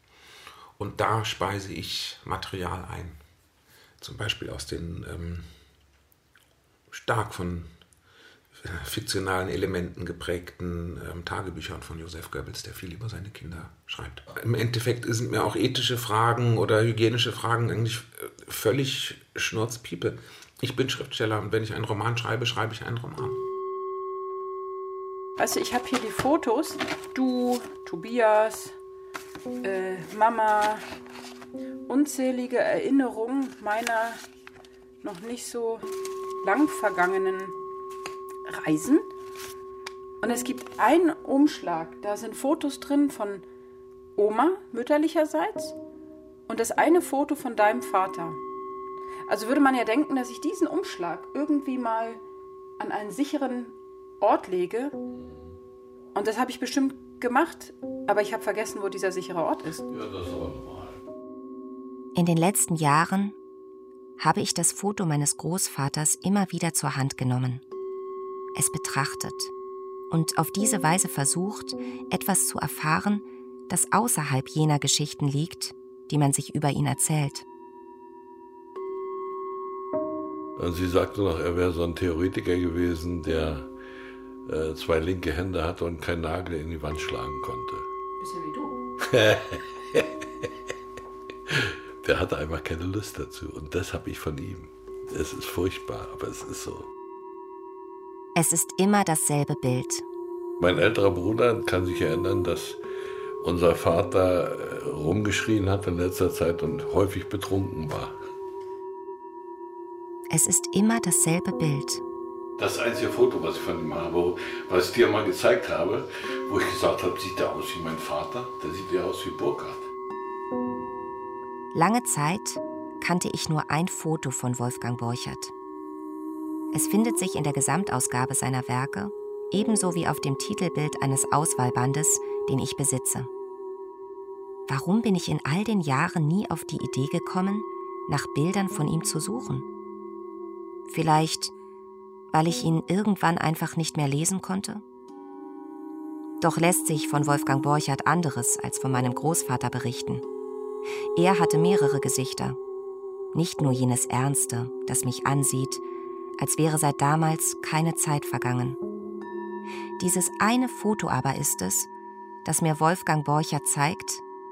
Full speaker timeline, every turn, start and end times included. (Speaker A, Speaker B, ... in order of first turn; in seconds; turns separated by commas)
Speaker A: 0.8-3.2, Speaker A: 4.0-5.5, Speaker A: 6.9-7.7, Speaker A: 8.6-23.4, Speaker B: 25.4-28.7, Speaker B: 29.6-30.8, Speaker B: 31.9-34.2, Speaker B: 35.0-35.9, Speaker B: 36.4-37.5, Speaker B: 38.5-39.1, Speaker B: 40.2-43.4, Speaker B: 44.1-45.7, Speaker B: 46.5-48.4, Speaker B: 49.3-52.2, Speaker B: 52.8-54.9, Speaker B: 56.1-59.8, Speaker C: 59.9-61.0, Speaker D: 62.1-63.4, Speaker D: 64.2-67.6, Speaker D: 68.5-69.5, Speaker D: 70.1-77.4, Speaker C: 80.6-83.7, Speaker C: 84.5-87.8, Speaker B: 88.2-88.8, Speaker C: 89.0-90.5, Speaker C: 91.5-96.9, Speaker D: 98.3-100.0, Speaker C: 100.6-102.8, Speaker C: 103.4-108.1, Speaker D: 110.3-112.0, Speaker C: 112.6-119.9, Speaker D: 121.7-125.5, Speaker D: 126.7-133.3, Speaker D: 134.7-139.7, Speaker D: 140.9-141.5, Speaker D: 142.3-144.8, Speaker D: 146.4-150.2, Speaker D: 151.1-152.6, Speaker D: 153.3-155.8, Speaker D: 156.4-158.8, Speaker D: 160.0-161.9, Speaker D: 162.4-164.2